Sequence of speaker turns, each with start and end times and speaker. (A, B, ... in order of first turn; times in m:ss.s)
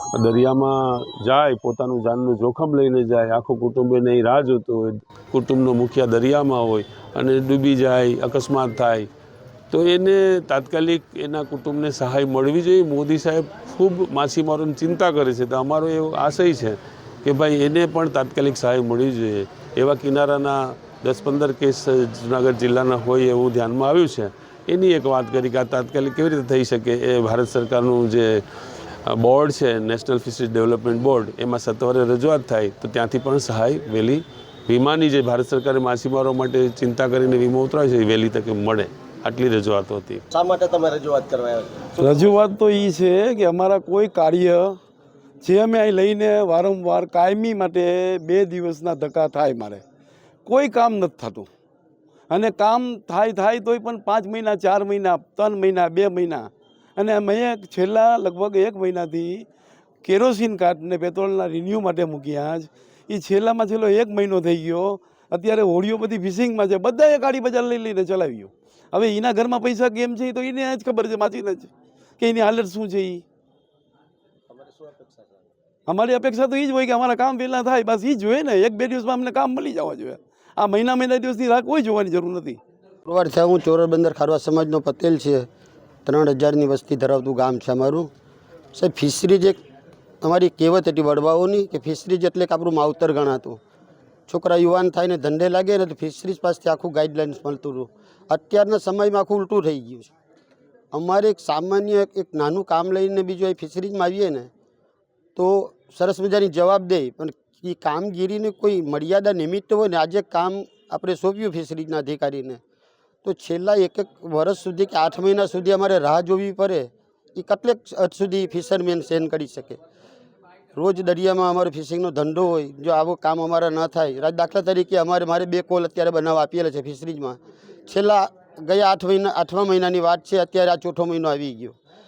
0:00.2-0:09.1 A
0:09.7-0:28.4 A
0:29.0-0:40.2 A
0:40.3-0:42.3 B
0:42.0-0:44.8 C
0:45.4-0:49.8 C
0:50.5-0:51.5 C
0:52.3-0:59.5 C
1:00.0-1:13.2 C
1:14.5-1:15.5 B
1:15.9-1:22.6 C
1:23.0-1:25.5 D
1:26.0-1:28.1 D
1:28.7-1:29.6 D
1:30.2-1:33.6 D
1:34.3-1:40.1 D
1:40.9-1:44.5 D
1:45.4-1:52.6 D
1:53.2-1:59.8 D
2:00.8-2:11.8 D